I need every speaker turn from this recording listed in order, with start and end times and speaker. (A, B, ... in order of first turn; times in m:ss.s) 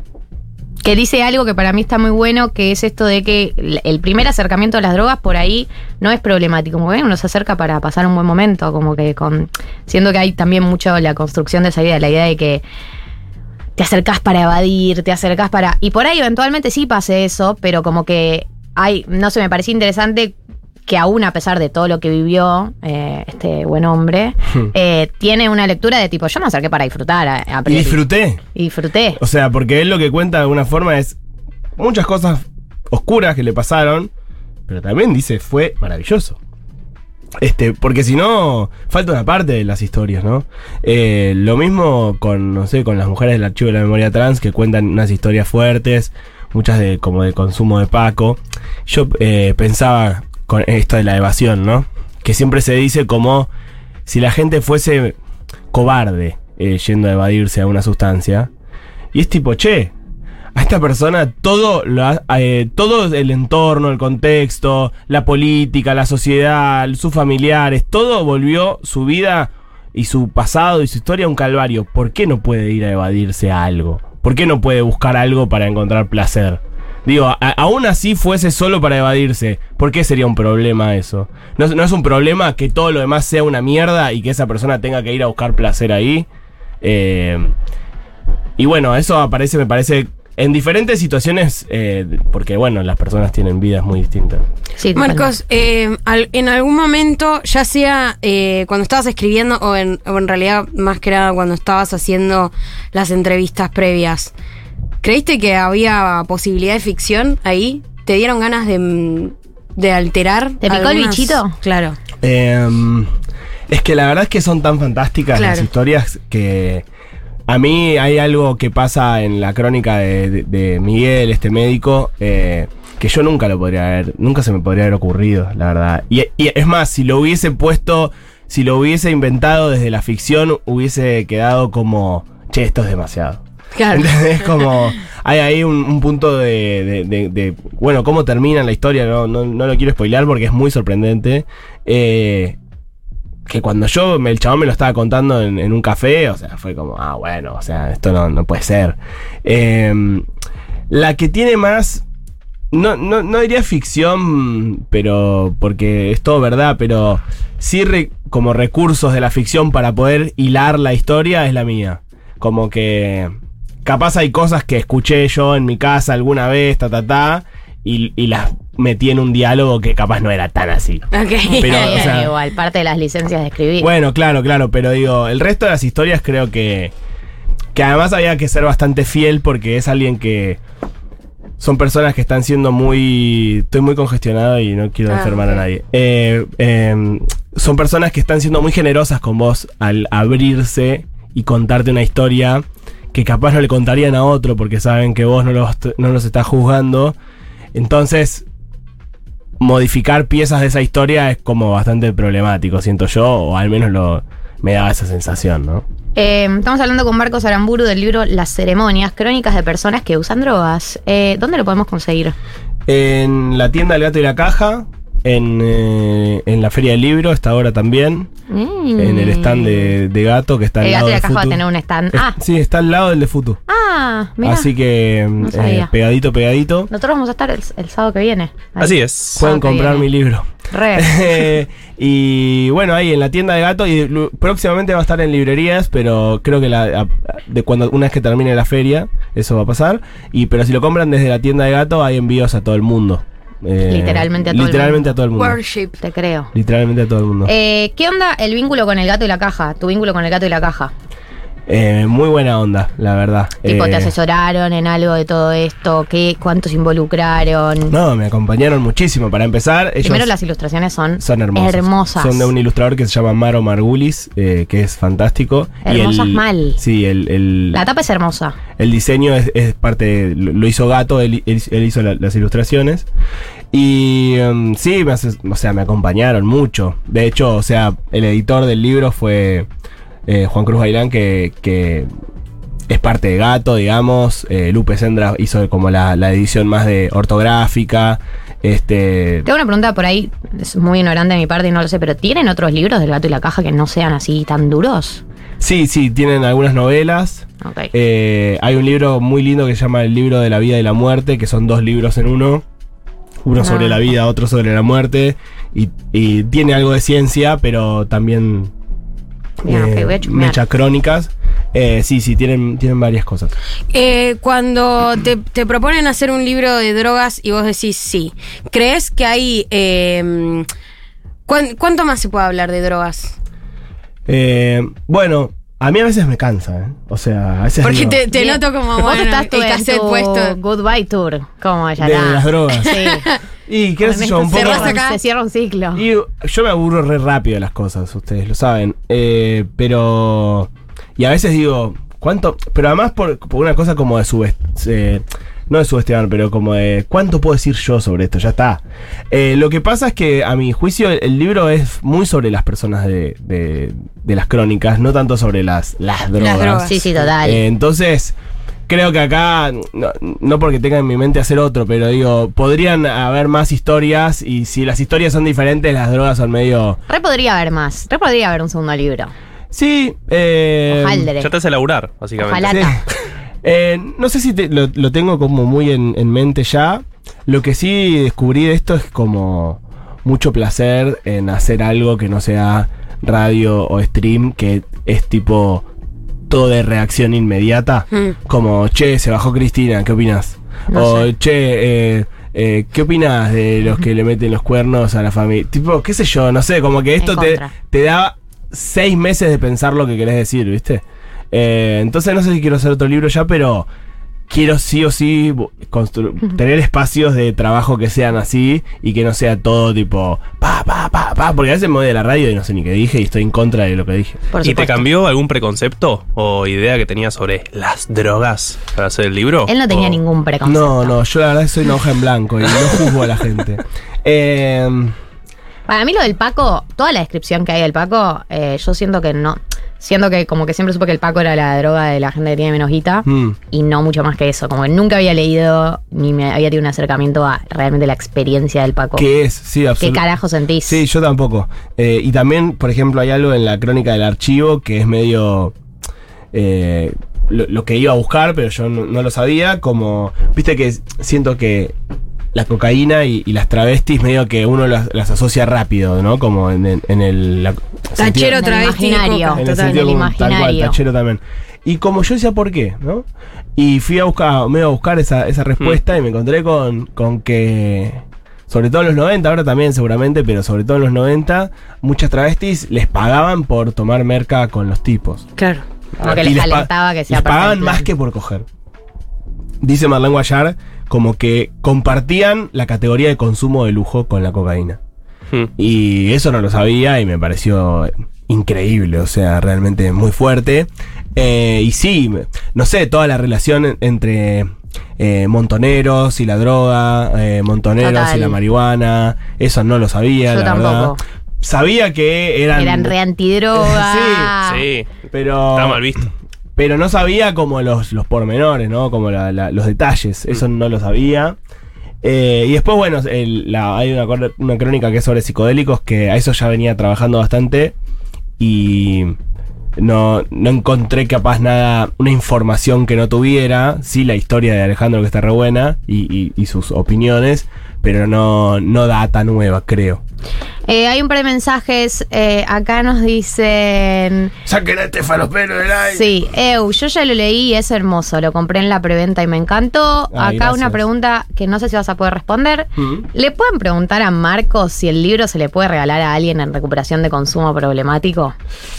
0:00.8-0:12.6 A
0:13.8-0:29.2 A
0:27.6-0:28.4 B
0:29.2-0:31.2 B
0:31.8-0:34.1 B
0:34.7-0:36.4 B
0:37.4-0:53.5 B
0:54.1-0:55.2 B
0:55.7-0:58.5 B
0:59.1-0:59.9 B
1:00.5-1:26.3 B
1:26.8-1:27.5 B
1:28.6-1:34.4 B
1:34.8-1:35.3 A
1:34.9-1:44.3 C
1:45.0-1:52.0 C
1:50.6-1:51.5 A
1:52.2-1:53.1 B
1:53.7-1:56.8 B
1:55.3-1:55.7 C
1:57.5-2:22.6 B
2:13.7-2:14.6 C
2:23.4-2:30.2 B
2:30.9-2:32.0 B
2:32.7-2:43.3 B
2:43.8-2:51.1 B
2:51.1-2:52.1 C
2:51.5-2:53.9 A
2:51.6-2:52.3 B
2:53.8-2:56.9 B
2:57.7-3:00.6 B
3:01.6-3:17.2 B
3:05.1-3:05.6 C
3:17.7-3:18.4 B
3:19.6-3:25.8 B
3:26.1-3:32.4 A
3:32.9-3:38.3 B
3:38.5-3:40.0 A
3:39.0-3:41.6 B
3:40.8-3:42.4 A
3:42.1-3:43.6 B
3:43.7-3:44.7 A
3:44.4-3:46.9 B
3:45.4-3:45.9 A
3:46.9-3:50.1 A
3:48.8-3:49.4 D
3:49.4-4:05.6 B
3:50.7-3:51.4 A
4:03.9-4:05.2 A
4:05.4-4:06.0 C
4:06.0-4:06.5 A
4:06.5-4:07.5 B
4:07.4-4:10.9 A
4:11.7-4:14.1 B
4:13.6-4:18.0 A
4:17.9-4:20.3 B
4:20.0-4:22.5 A
4:21.2-4:27.8 B
4:25.8-4:26.8 A
4:27.7-4:28.6 A
4:28.8-4:33.1 B
4:33.7-4:39.7 B
4:40.3-4:42.1 B
4:42.9-4:49.4 B
4:49.4-4:55.2 A
4:55.6-5:02.6 B
4:57.6-4:57.9 A
5:03.4-5:08.7 B
5:03.6-5:04.0 A
5:09.6-5:13.5 B
5:09.6-5:10.6 A
5:13.9-5:20.6 C
5:21.4-5:23.4 C
5:24.2-5:28.2 B
5:27.8-5:30.6 C
5:28.3-5:33.3 A
5:32.0-5:33.0 B
5:33.7-5:35.0 B
5:34.0-5:36.0 A
5:34.5-5:35.2 C
5:35.9-5:58.4 B
5:56.4-5:57.0 C
5:56.8-5:57.6 A
5:58.9-6:07.0 B
6:07.1-6:09.3 A
6:09.7-6:11.3 B
6:10.9-6:11.5 A
6:11.4-6:12.9 D
6:12.4-6:13.0 A
6:12.7-6:13.0 B
6:13.6-6:25.8 B
6:26.5-6:43.9 B
6:30.9-6:31.3 A
6:37.2-6:37.7 A
6:44.5-6:54.5 B
6:54.5-6:55.1 A
6:54.6-7:00.2 D
6:59.7-7:01.2 A
7:00.6-7:05.1 B
7:05.9-7:19.3 A
7:13.2-7:13.6 B
7:19.2-7:20.2 B
7:20.0-7:21.0 A
7:20.8-7:25.7 B
7:26.5-7:31.9 B
7:32.5-7:38.6 B
7:38.2-7:40.0 C
7:38.5-7:41.0 A
7:39.6-7:55.4 B
7:55.6-7:55.8 C
7:56.2-7:58.1 A
7:56.2-7:58.6 B
7:59.8-8:05.0 B
8:05.8-8:23.1 B
8:18.0-8:18.6 A
8:20.5-8:21.2 A
8:22.7-8:24.8 A
8:23.7-8:24.5 B
8:24.6-8:25.2 D
8:25.3-8:26.0 B
8:25.7-8:26.3 D
8:26.8-8:31.6 B
8:32.2-8:37.9 B
8:38.6-8:39.4 B
8:40.0-8:50.2 B
8:50.8-8:54.5 A
8:54.6-8:56.3 B
8:56.1-9:08.5 A
9:00.3-9:01.0 B
9:03.0-9:03.2 B